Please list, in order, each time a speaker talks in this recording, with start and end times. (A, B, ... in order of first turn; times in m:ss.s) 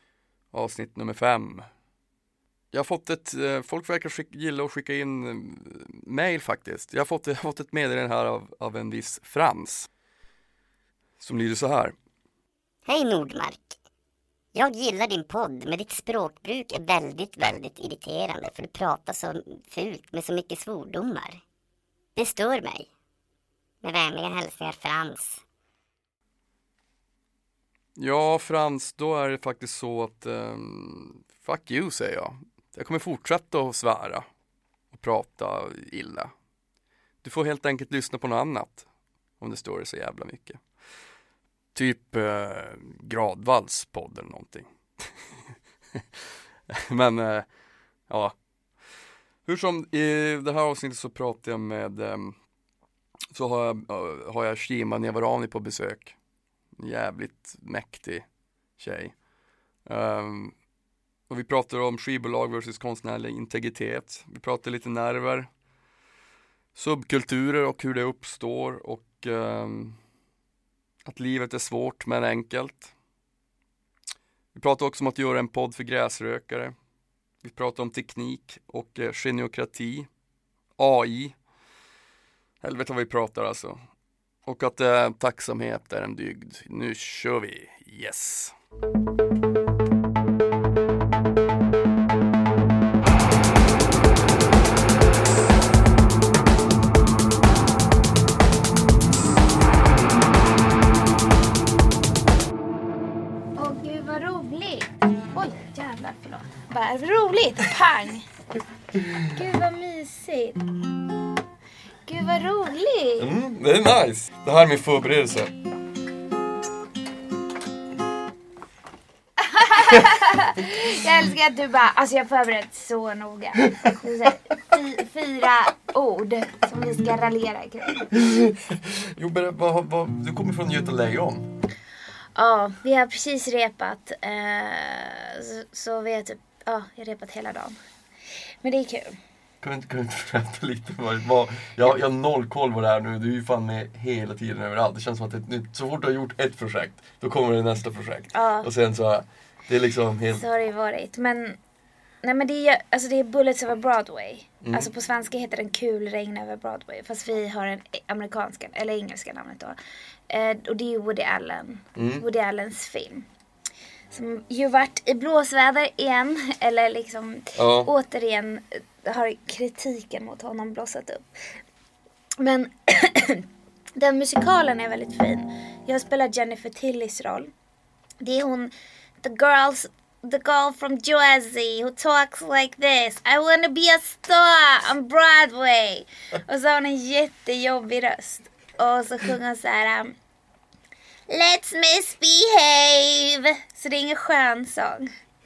0:00.5-0:01.7 A
0:02.7-0:09.9 A
0:11.2-0:12.0 A
0:12.8-0:13.8 B
0:14.5-0:21.4 B
0:22.2-0:22.9 B
0:23.8-0:25.4 B
0:28.0-0:34.3 A
0:34.9-0:36.3 A
0:37.2-0:38.9 A
0:39.4-0:40.6 A
0:41.7-0:45.1 A
0:46.7-0:47.5 A
0:48.1-0:48.4 A
0:49.4-0:52.4 A
0:53.3-0:56.2 A
0:56.8-0:58.2 A
0:58.8-0:59.2 A
0:59.8-1:00.6 A
1:01.3-1:05.5 A
1:06.7-1:10.0 A
1:11.0-1:12.9 A
1:14.5-1:16.7 A
1:17.4-1:20.1 A
1:20.8-1:21.4 A
1:22.6-1:23.8 A
1:24.4-1:28.5 A
1:43.6-1:48.3 C
1:49.0-1:49.2 A
1:49.2-1:50.6 C
1:52.1-1:53.3 C
1:53.2-1:55.5 A
1:59.4-2:08.0 C
2:08.0-2:11.5 A
2:12.4-2:17.8 C
2:18.6-2:19.2 C
2:19.6-2:30.4 A
2:28.3-2:28.7 C
2:30.3-2:31.6 C
2:32.2-2:39.8 C
2:34.6-2:34.9 A
2:40.3-2:43.3 C
2:42.0-2:42.2 A
2:44.1-2:51.2 C
2:47.6-2:47.9 A
2:52.4-2:53.4 C
2:54.0-2:57.5 C
2:58.2-3:10.1 C
3:11.3-3:15.1 C